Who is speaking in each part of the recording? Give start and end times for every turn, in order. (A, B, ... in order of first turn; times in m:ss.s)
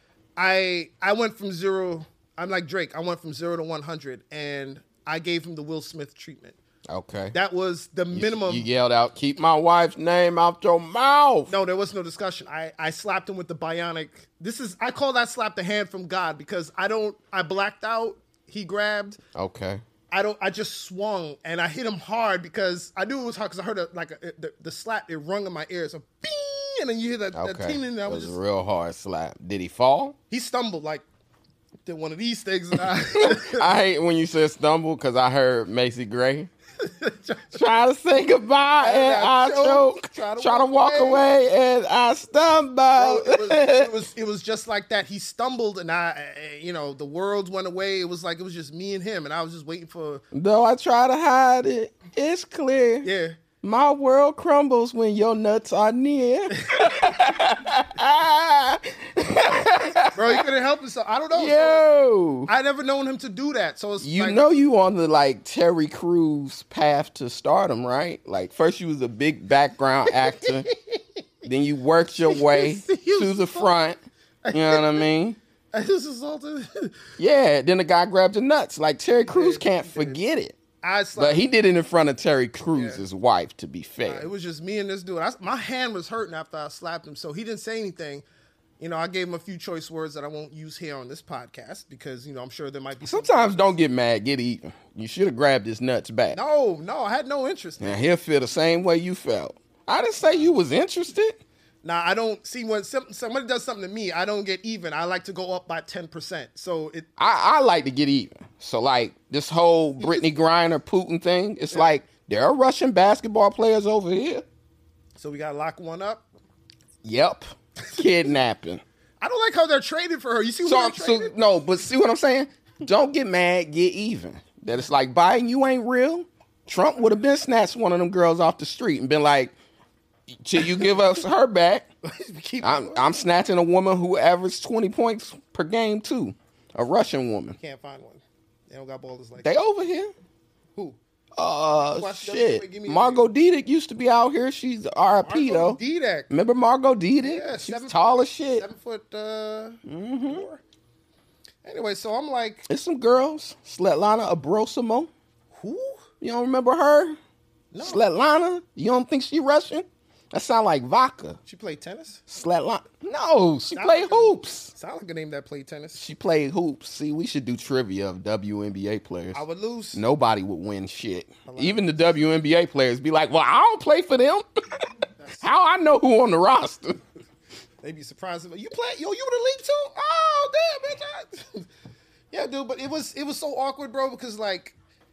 0:00.4-0:06.6 A
0:06.9-0:07.4 B
0:07.3-0:08.7 A
0:08.1-0:11.5 B
0:11.5-0:19.2 A
0:19.4-0:19.8 B
0:20.1-0:28.4 A
0:27.3-0:30.2 B
0:30.3-0:31.0 A
0:31.8-0:33.7 A
0:33.1-0:36.5 B
0:36.8-0:37.7 A
0:37.5-0:43.9 B
0:38.8-0:41.2 A
0:42.9-0:50.2 A
0:50.3-0:53.1 B
0:53.0-0:53.4 A
0:53.6-1:00.4 B
0:56.7-0:57.3 A
1:00.1-1:01.8 A
1:01.3-1:02.5 B
1:02.5-1:04.4 A
1:04.0-1:10.7 B
1:10.1-1:11.2 A
1:11.4-1:14.0 B
1:12.3-1:13.7 A
1:14.4-1:15.1 A
1:14.5-1:15.4 B
1:15.7-1:17.0 A
1:17.2-1:20.6 B
1:19.3-1:20.2 A
1:20.8-1:21.4 A
1:21.2-1:24.3 B
1:22.7-1:23.0 A
1:24.0-1:28.2 A
1:28.8-1:33.8 A
1:33.0-1:36.4 B
1:36.3-1:38.0 A
1:37.8-1:41.4 B
1:41.8-1:47.3 A
1:47.2-1:54.4 B
1:51.7-1:52.0 A
1:55.2-1:56.2 A
1:57.0-1:58.8 B
1:59.2-2:01.4 A
2:00.6-2:09.5 B
2:10.4-2:11.9 B
2:10.6-2:11.0 A
2:12.0-2:13.1 A
2:12.6-2:17.6 B
2:17.6-2:19.6 A
2:19.4-2:20.1 B
2:21.4-2:25.8 B
2:21.9-2:23.2 A
2:25.2-2:26.3 A
2:26.3-2:28.7 B
2:27.2-2:30.6 A
2:29.8-2:30.4 B
2:31.6-2:32.7 A
2:32.7-2:35.1 B
2:35.5-2:36.0 A
2:36.2-2:37.2 B
2:37.7-2:38.0 A
2:37.8-2:41.4 B
2:41.5-2:42.2 A
2:42.3-2:44.7 B
2:43.7-2:46.0 A
2:46.0-2:49.4 B
2:49.3-2:50.0 A
2:49.9-2:54.9 B
2:51.5-2:52.1 A
2:55.2-2:55.4 A
2:55.4-2:57.0 B
2:57.8-3:01.7 A
3:02.3-3:04.8 A